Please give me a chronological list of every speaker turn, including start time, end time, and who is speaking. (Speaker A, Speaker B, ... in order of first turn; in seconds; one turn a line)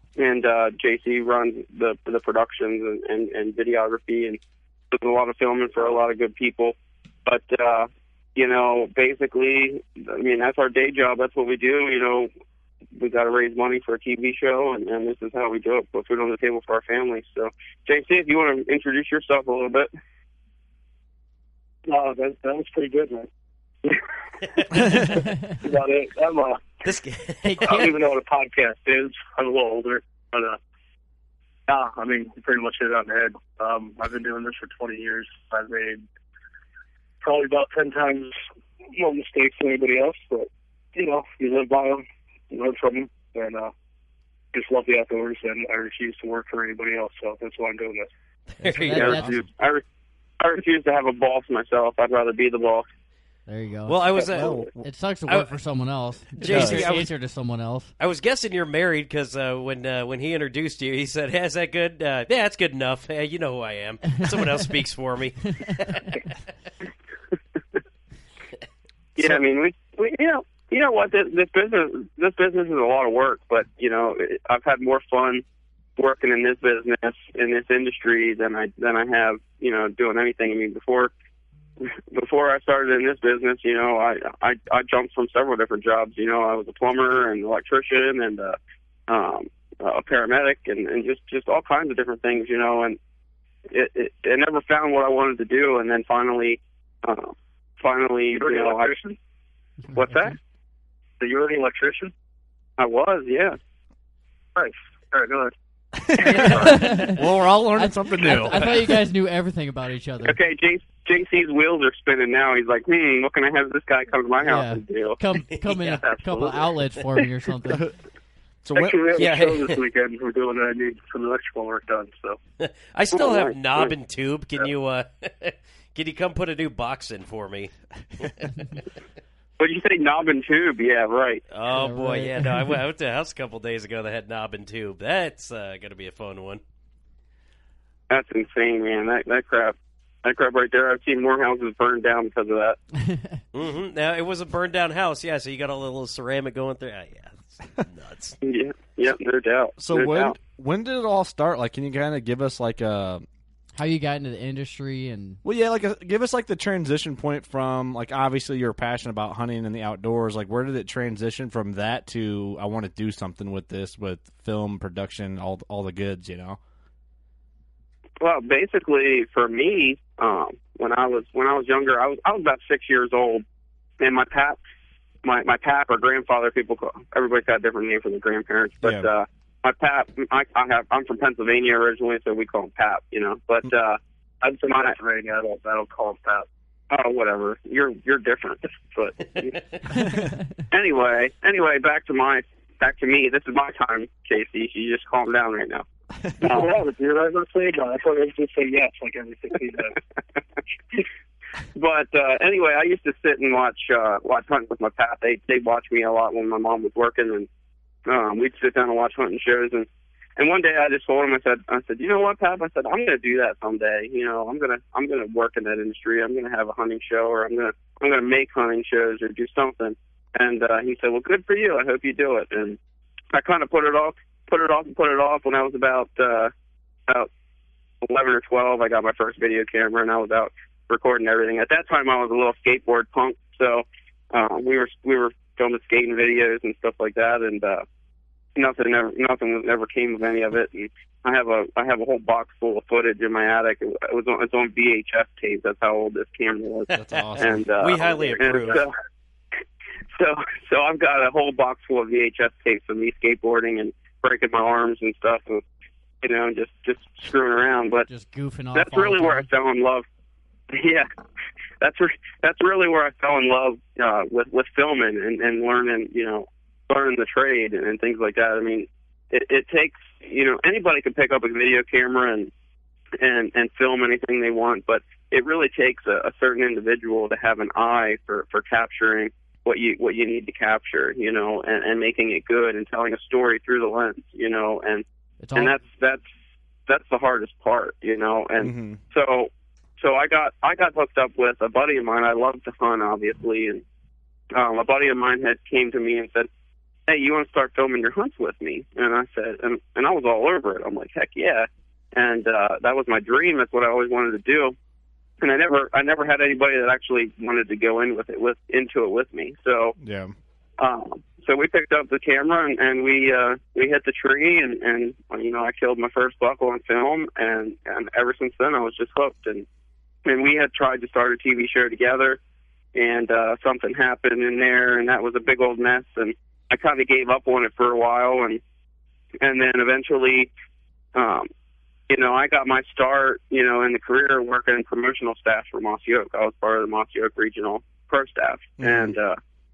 Speaker A: 0.2-4.4
Speaker A: 4.9-6.8
Speaker A: 7.3-12.3
Speaker A: 12.9-19.9
Speaker B: 21.9-23.3
Speaker C: 25.1-25.6
Speaker B: 25.6-26.9
Speaker D: 26.8-27.8
Speaker C: 27.4-27.9
Speaker B: 27.6-30.6
Speaker B: 31.7-36.0
Speaker B: 37.2-38.4
Speaker B: 38.9-43.7
Speaker B: 44.5-48.1
Speaker D: 48.6-49.3
Speaker C: 48.6-49.4
Speaker E: 48.9-49.4
Speaker A: 48.9-49.8
Speaker A: 50.4-52.9
Speaker C: 53.5-54.2
Speaker D: 53.9-54.7
Speaker B: 54.1-54.5
Speaker E: 54.3-54.9
Speaker C: 54.8-57.9
Speaker E: 56.4-57.0
Speaker D: 56.4-57.1
Speaker D: 58.0-66.2
Speaker A: 69.2-75.4
Speaker A: 76.0-81.1
Speaker A: 81.8-88.6
Speaker A: 89.1-93.0
Speaker A: 93.7-98.9
Speaker B: 98.4-99.2
Speaker C: 99.8-100.4
Speaker A: 99.9-100.4
Speaker B: 101.2-102.1
Speaker A: 102.8-103.6
Speaker B: 104.6-105.5
Speaker E: 106.1-108.8
Speaker B: 106.2-106.9
Speaker C: 106.2-107.2
Speaker C: 107.8-110.4
Speaker A: 110.3-115.2
Speaker C: 114.4-117.9
Speaker E: 118.6-119.0
Speaker B: 118.7-122.4
Speaker D: 119.2-119.8
Speaker D: 122.6-128.6
Speaker A: 123.1-123.9
Speaker A: 129.6-131.4
Speaker D: 131.5-136.6
Speaker C: 131.7-132.8
Speaker A: 138.1-142.8
Speaker C: 143.0-143.4
Speaker D: 143.5-148.4
Speaker A: 148.4-150.3
Speaker E: 149.8-153.2
Speaker C: 153.8-155.4
Speaker E: 155.4-166.6
Speaker A: 168.2-173.4
Speaker A: 174.0-174.6
Speaker A: 175.2-184.0
Speaker E: 178.8-179.1
Speaker B: 184.5-186.5
Speaker A: 184.7-184.9
Speaker A: 186.9-189.6
Speaker C: 190.0-190.3
Speaker A: 190.7-195.8
Speaker B: 196.4-200.0
Speaker A: 201.7-207.5
Speaker A: 208.1-222.8
Speaker A: 223.3-226.5
Speaker A: 228.0-237.8
Speaker A: 238.6-248.9
Speaker D: 246.9-248.8
Speaker E: 247.0-247.7
Speaker A: 250.2-255.6
Speaker A: 256.2-258.1
Speaker C: 258.1-259.5
Speaker A: 258.7-260.1
Speaker A: 260.7-261.1
Speaker A: 261.8-272.5
Speaker A: 273.2-286.2
Speaker C: 285.4-285.8
Speaker A: 286.9-293.8
Speaker E: 288.6-289.0
Speaker A: 294.5-296.5
Speaker A: 297.1-304.8
Speaker A: 305.4-310.0
Speaker E: 310.0-310.3
Speaker A: 310.8-319.7
Speaker A: 320.2-322.4
Speaker A: 322.9-328.6
Speaker A: 329.4-330.5
Speaker A: 331.1-331.5
Speaker A: 332.1-339.4
Speaker E: 338.8-339.2